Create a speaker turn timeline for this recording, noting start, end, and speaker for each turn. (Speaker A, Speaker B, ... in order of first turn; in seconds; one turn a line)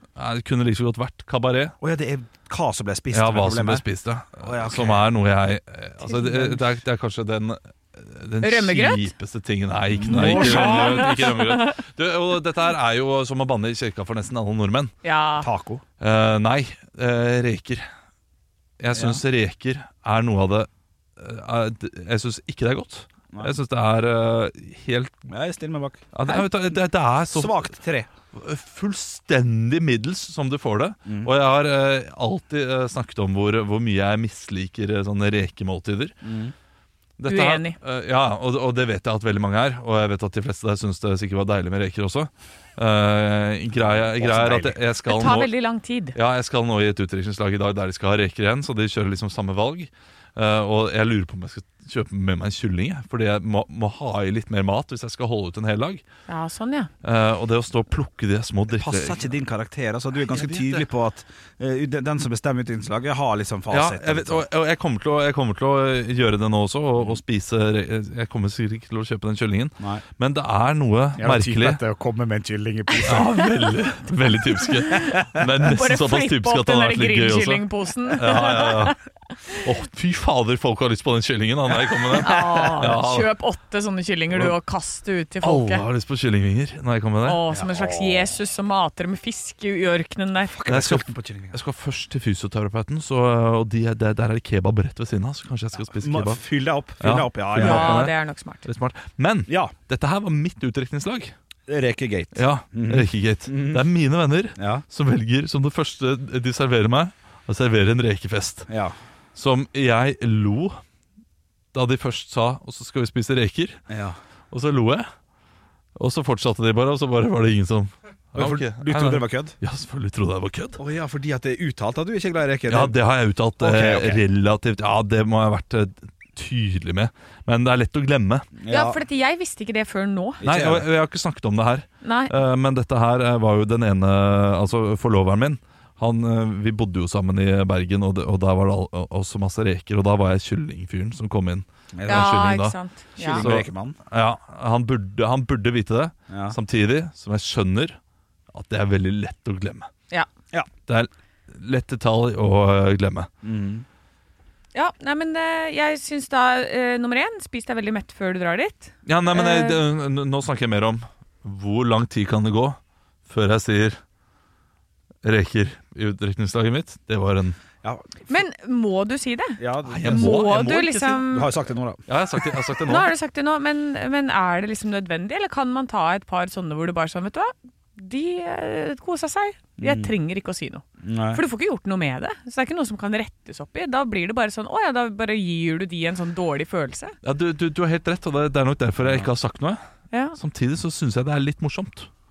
Speaker A: 0.2-1.8
Speaker B: 1.8-3.9
Speaker A: 3.1-14.9
Speaker B: 4.4-5.1
Speaker B: 6.2-6.7
Speaker C: 8.4-9.1
Speaker B: 9.9-11.3
Speaker C: 10.1-11.8
Speaker C: 15.0-15.5
Speaker B: 15.4-15.8
Speaker A: 16.0-17.9
Speaker A: 18.8-25.2
Speaker B: 18.9-19.2
Speaker B: 25.3-26.4
Speaker A: 26.1-27.7
Speaker B: 27.3-28.1
Speaker A: 28.3-36.1
Speaker B: 31.1-31.3
Speaker B: 36.2-36.5
Speaker A: 37.2-45.5
Speaker C: 37.3-37.8
Speaker B: 43.8-44.8
Speaker C: 45.1-46.2
Speaker A: 46.1-56.0
Speaker C: 56.3-56.9
Speaker A: 57.0-59.2
Speaker B: 58.7-64.5
Speaker A: 60.3-60.9
Speaker A: 63.7-71.8
Speaker B: 71.2-73.4
Speaker A: 73.0-79.0
Speaker C: 73.2-73.5
Speaker C: 74.8-79.0
Speaker A: 79.5-83.3
Speaker C: 82.2-85.9
Speaker B: 82.4-82.7
Speaker A: 85.4-87.4
Speaker C: 87.2-90.5
Speaker B: 87.5-88.3
Speaker B: 90.5-91.6
Speaker A: 90.7-96.4
Speaker B: 95.9-98.1
Speaker A: 97.0-101.3
Speaker C: 97.6-98.7
Speaker B: 99.5-99.7
Speaker B: 101.7-103.9
Speaker A: 102.3-108.7
Speaker B: 104.6-104.8
Speaker B: 108.7-109.0
Speaker A: 109.3-110.8
Speaker A: 111.7-113.8
Speaker B: 113.9-114.2
Speaker A: 114.5-115.1
Speaker A: 116.0-120.8
Speaker B: 118.3-119.5
Speaker B: 120.8-123.0
Speaker A: 122.7-128.5
Speaker B: 123.6-124.2
Speaker B: 128.6-129.0
Speaker C: 128.7-130.4
Speaker B: 130.4-130.9
Speaker A: 130.4-142.8
Speaker C: 132.0-132.3
Speaker B: 141.9-142.3
Speaker C: 142.1-143.5
Speaker B: 143.2-144.0
Speaker A: 143.3-148.0
Speaker B: 146.3-146.6
Speaker A: 148.5-149.9
Speaker A: 150.9-153.3
Speaker B: 153.4-153.9
Speaker C: 154.7-159.8
Speaker A: 159.1-164.0
Speaker A: 165.2-167.6
Speaker C: 168.3-171.5
Speaker B: 169.6-170.4
Speaker A: 169.9-171.2
Speaker B: 171.3-172.0
Speaker A: 172.1-173.1
Speaker C: 172.8-187.2
Speaker B: 179.8-180.1
Speaker B: 181.0-181.4
Speaker A: 187.2-189.8
Speaker B: 189.0-189.3
Speaker C: 190.1-190.4
Speaker A: 190.4-192.1